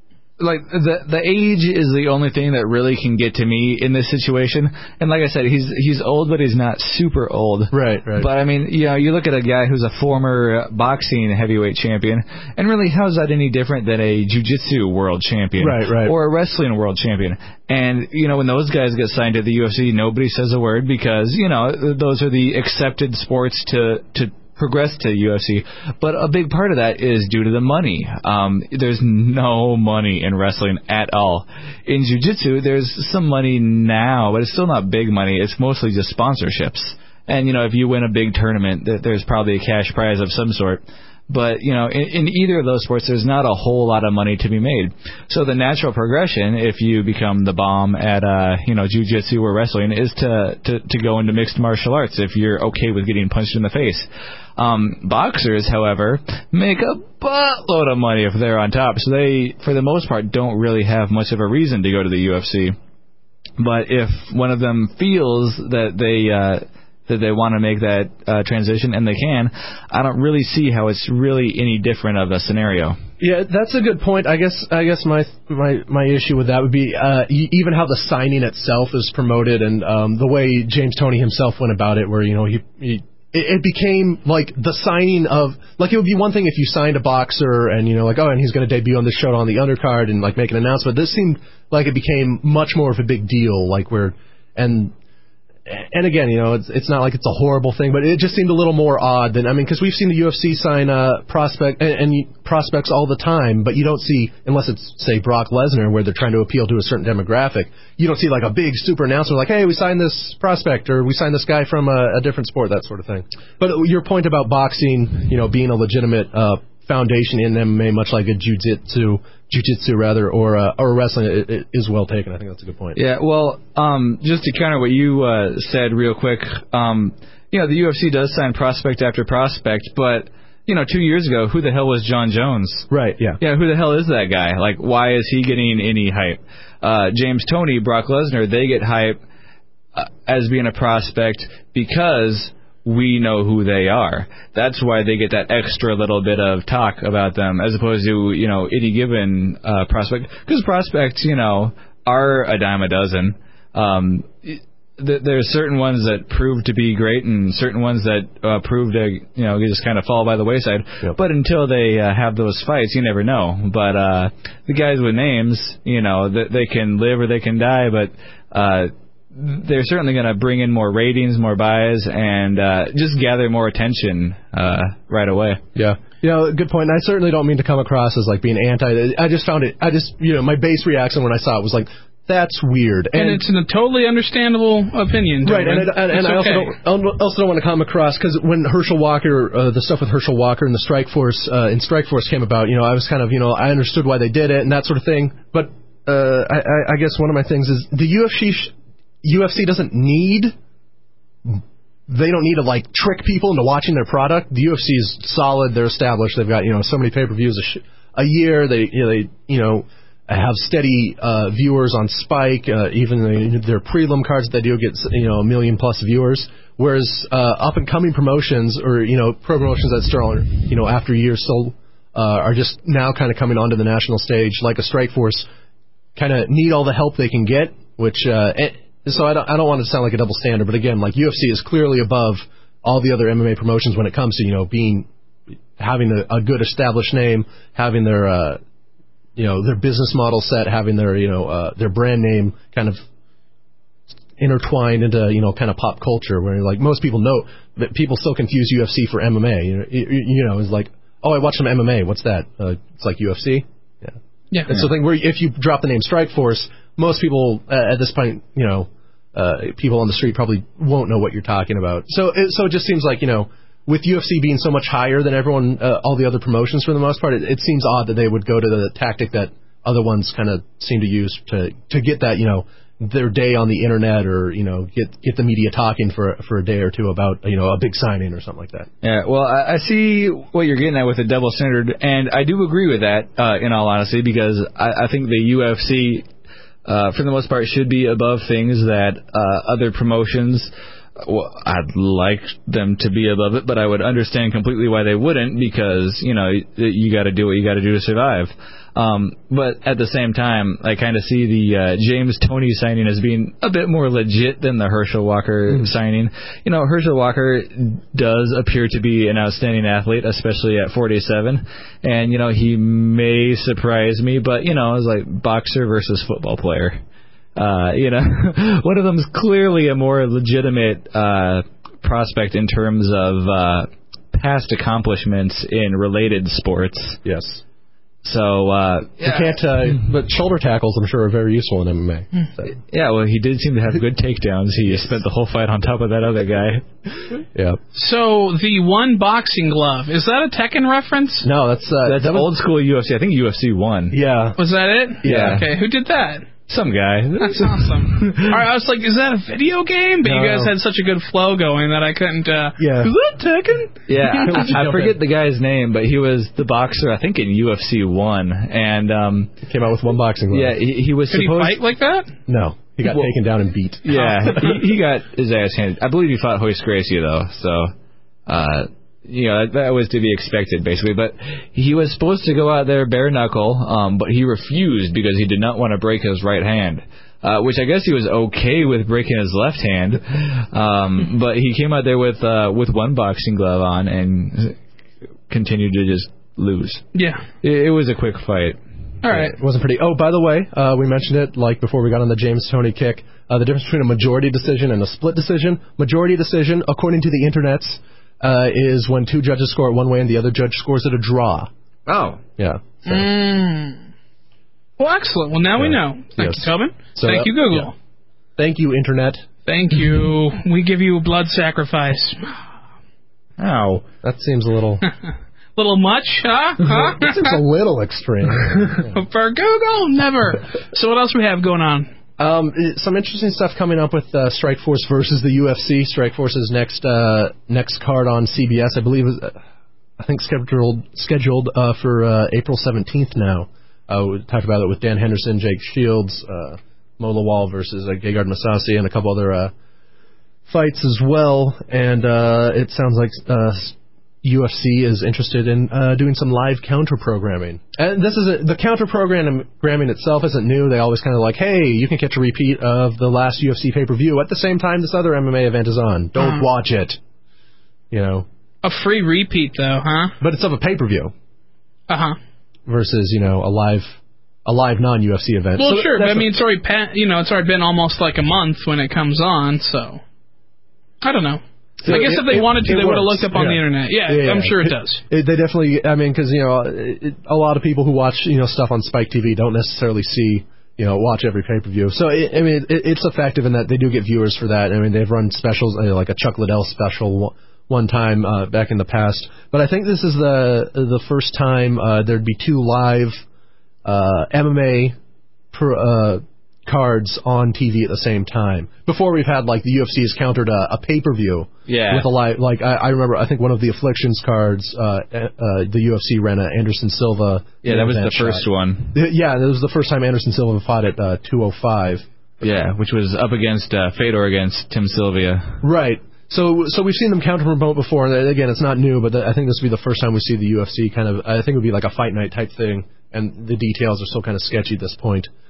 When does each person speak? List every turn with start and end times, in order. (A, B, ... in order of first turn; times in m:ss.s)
0:00.4-0:54.0 A
0:07.7-0:08.3 B
0:15.6-0:16.1 B
0:54.6-1:02.7 A
1:03.6-1:13.0 A
1:13.2-1:34.9 B
1:35.6-2:03.0 B
2:03.0-2:12.9 A
2:12.9-2:13.4 B
2:13.4-2:19.2 A
2:19.9-2:55.6 A
2:55.7-3:03.4 B
3:03.1-3:06.7 C
3:05.4-3:18.7 B
3:19.2-3:20.5 B
3:21.4-3:45.4 B
3:46.2-3:55.1 B
3:55.8-3:58.6 B
3:59.4-4:03.0 B
4:04.4-4:14.2 B
4:14.7-4:38.9 B
4:39.0-4:46.2 A
4:46.8-5:17.0 A
5:17.6-5:27.2 A
5:27.2-5:27.6 B
5:28.2-5:29.6 A
5:29.2-5:32.7 B
5:32.9-5:37.2 A
5:37.5-5:37.8 B
5:37.9-5:41.5 C
5:41.4-5:42.5 B
5:42.0-5:44.2 A
5:44.1-5:44.6 B
5:44.6-5:46.4 C
5:45.2-5:45.6 B
5:45.2-5:45.7 A
5:46.7-5:48.6 A
5:47.4-5:54.5 C
5:50.2-5:50.7 B
5:52.8-5:53.1 B
5:54.1-5:59.5 A
5:54.4-5:55.2 B
5:59.6-6:00.8 B
6:00.5-6:01.8 A
6:01.3-6:02.3 C
6:02.5-6:04.7 B
6:03.0-6:03.3 A
6:04.0-6:07.9 A
6:04.1-6:04.5 C
6:08.5-6:24.8 A
6:25.5-6:27.0 A
6:27.1-6:27.4 C
6:27.6-6:28.8 A
6:29.2-6:29.5 C
6:29.3-6:41.7 B
6:42.1-6:42.4 A
6:42.6-6:43.3 B
6:43.0-6:44.0 C
6:45.0-6:47.9 C
6:45.8-6:47.9 B
6:48.6-6:49.4 B
6:49.6-6:52.6 C
6:53.6-6:54.0 A
6:54.1-6:55.0 B
6:55.8-6:57.6 C
6:56.8-6:59.2 B
6:59.0-7:02.1 C
7:02.4-7:09.6 B
7:10.2-7:19.7 B
7:20.7-7:37.2 B
7:38.1-7:38.4 B
7:38.8-7:40.4 C
7:40.4-7:41.3 B
7:42.1-7:42.4 C
7:42.9-7:46.5 B
7:45.8-7:50.2 C
7:51.2-7:55.2 C
7:52.0-8:13.4 B
8:14.0-8:15.2 B
8:15.7-8:32.2 B
8:21.9-8:22.3 A
8:27.8-8:29.1 A
8:32.6-8:35.8 A
8:35.8-8:45.5 B